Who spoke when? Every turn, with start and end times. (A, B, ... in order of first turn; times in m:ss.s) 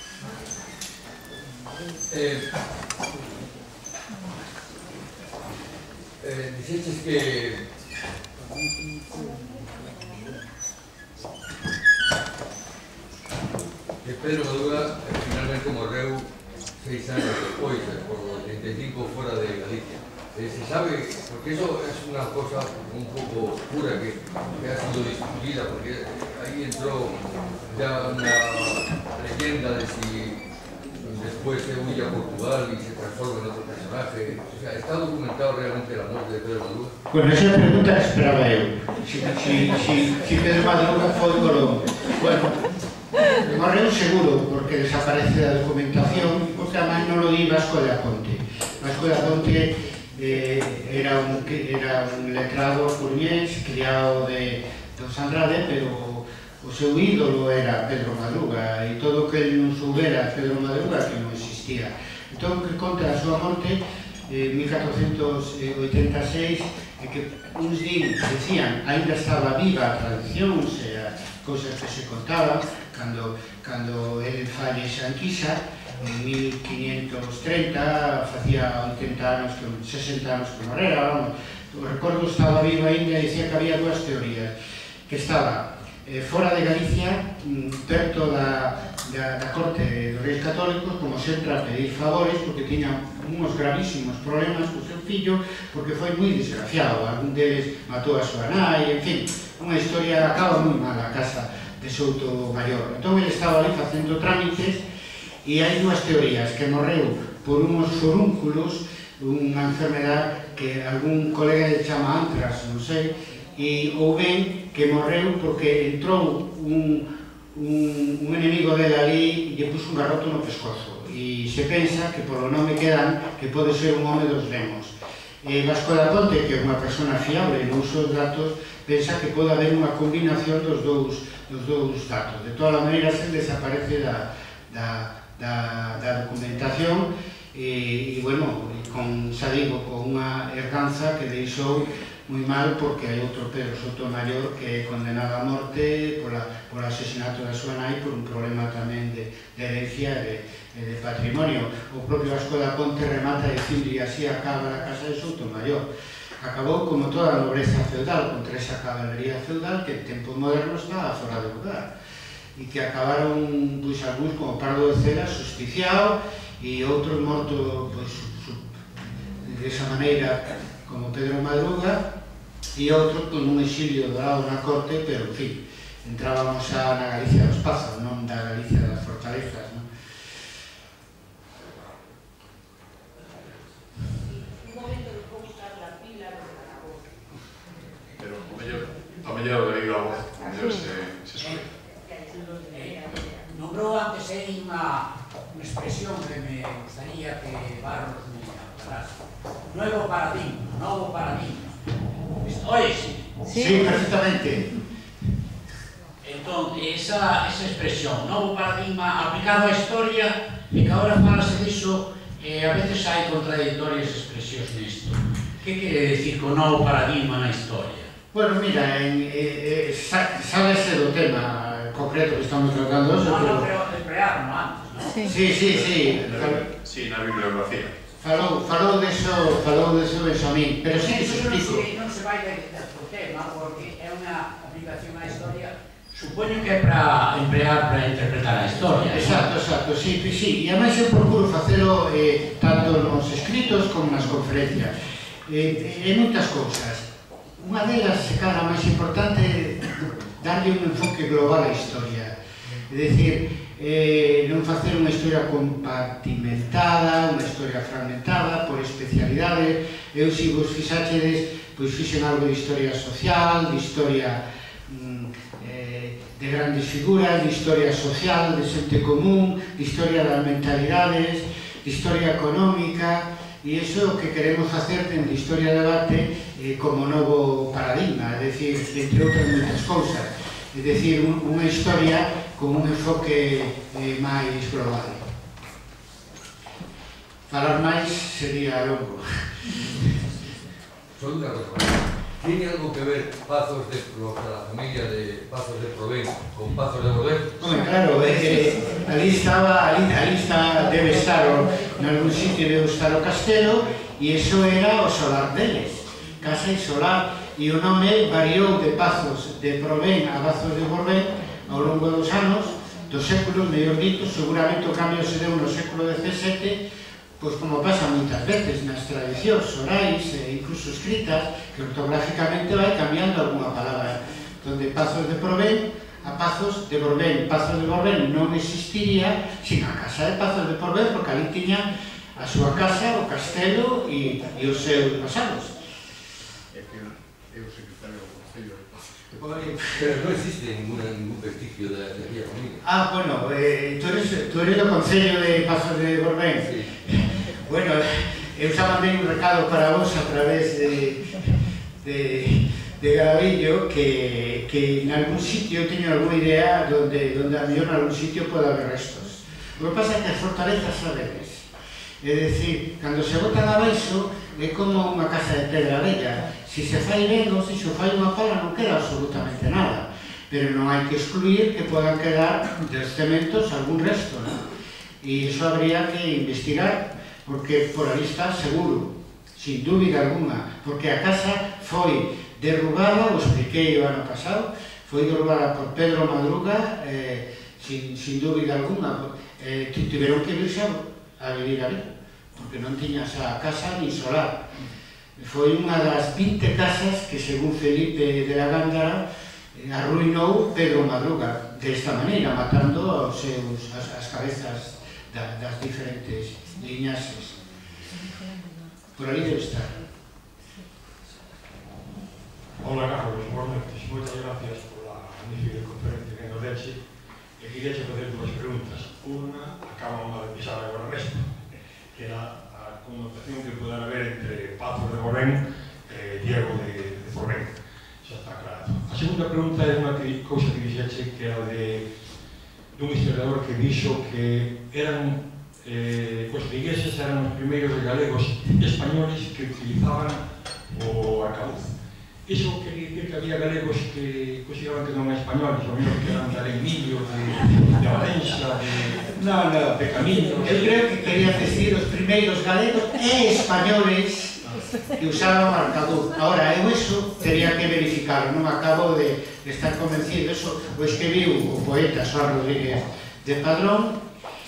0:02.1-0:02.4 A
0:06.2-0:07.6 A
0:14.0-0:16.2 A
0:16.8-0:30.4 A
0:31.0-0:36.9 A
0:37.1-0:42.6 B
0:43.3-1:24.5 B
1:25.1-1:44.8 B
1:45.4-2:35.9 B
2:36.4-2:41.9 B
2:42.6-2:48.6 B
2:49.4-2:52.0 B
2:52.8-2:59.8 B
3:08.2-3:11.7 C
3:11.4-3:11.6 D
3:12.7-3:21.8 D
3:22.4-3:23.9 D
3:23.5-3:24.8 B
3:26.2-3:38.1 D
3:38.3-3:43.7 B
3:43.2-3:45.2 D
3:45.2-3:46.6 B
3:45.7-3:48.0 C
3:48.2-3:51.8 B
3:51.0-3:59.5 D
3:59.0-4:04.9 B
4:05.5-4:07.0 B
4:07.6-4:12.3 B
4:12.8-4:45.2 B
4:47.5-4:50.0 B
4:51.1-4:57.5 A
4:57.6-5:16.8 B
5:17.4-5:35.7 B
5:36.7-5:39.6 C
5:39.5-5:39.8 B
5:39.9-5:42.8 A
5:42.8-6:01.7 B
5:46.6-5:46.9 A
6:02.2-6:14.6 B
6:15.2-6:34.6 B
6:35.4-6:39.2 B
6:39.7-6:47.6 B
6:49.2-6:50.0 B
6:52.8-6:57.1 E
6:57.6-7:01.6 E
7:02.1-7:12.1 E
7:12.9-7:29.3 E
7:29.3-7:30.1 B
7:29.9-7:31.7 E
7:30.6-7:34.6 B
7:35.1-7:44.2 B